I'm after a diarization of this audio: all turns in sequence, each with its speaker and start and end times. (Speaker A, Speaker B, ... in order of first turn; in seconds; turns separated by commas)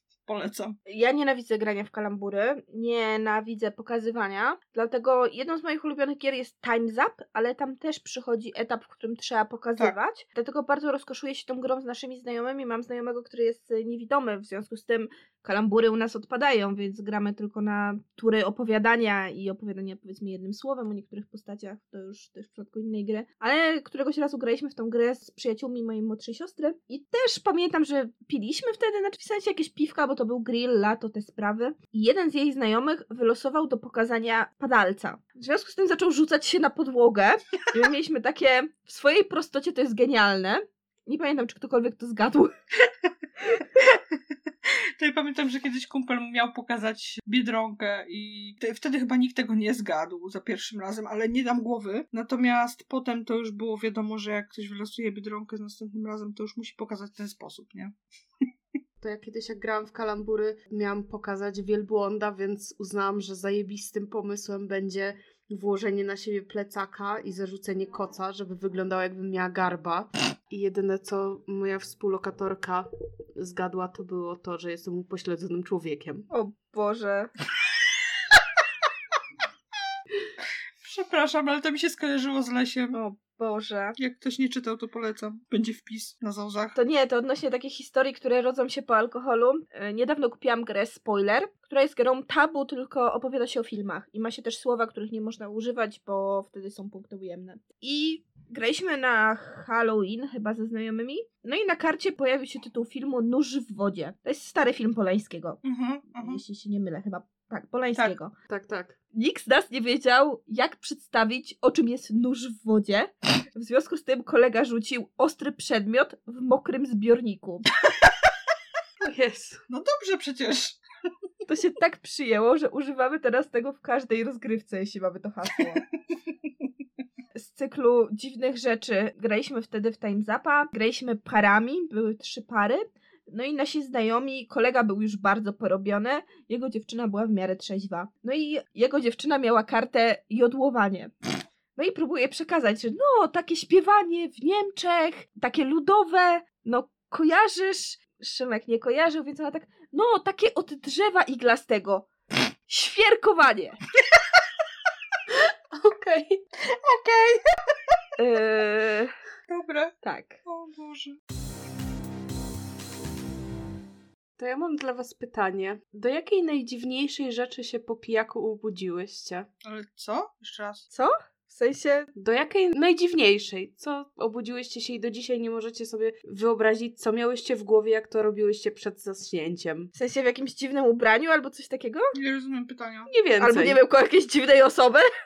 Speaker A: 0.2-0.8, Speaker B: 0.9-42.5, Speaker A: 43.8-57.9, Speaker C: 59.0-76.3, Speaker B: 76.3-77.3, Speaker A: 80.8-83.0, Speaker B: 82.9-84.0, Speaker A: 84.0-86.8, Speaker B: 86.7-105.6, Speaker A: 105.6-106.4, Speaker B: 106.1-108.3, Speaker C: 108.5-109.0, Speaker B: 109.1-117.7, Speaker C: 119.0-119.6, Speaker A: 119.7-120.8, Speaker B: 121.5-125.8, Speaker B: 127.3-141.1, Speaker B: 141.8-152.1, Speaker B: 152.7-153.8, Speaker C: 155.3-156.4, Speaker A: 156.6-157.4, Speaker B: 158.2-159.1, Speaker A: 159.5-159.9, Speaker B: 160.0-160.4, Speaker A: 160.4-161.2, Speaker C: 164.4-169.5, Speaker A: 169.6-170.8, Speaker B: 170.9-172.1, Speaker C: 172.2-179.9, Speaker B: 179.9-182.1, Speaker A: 182.1-183.1, Speaker C: 183.1-183.8, Speaker B: 183.4-185.0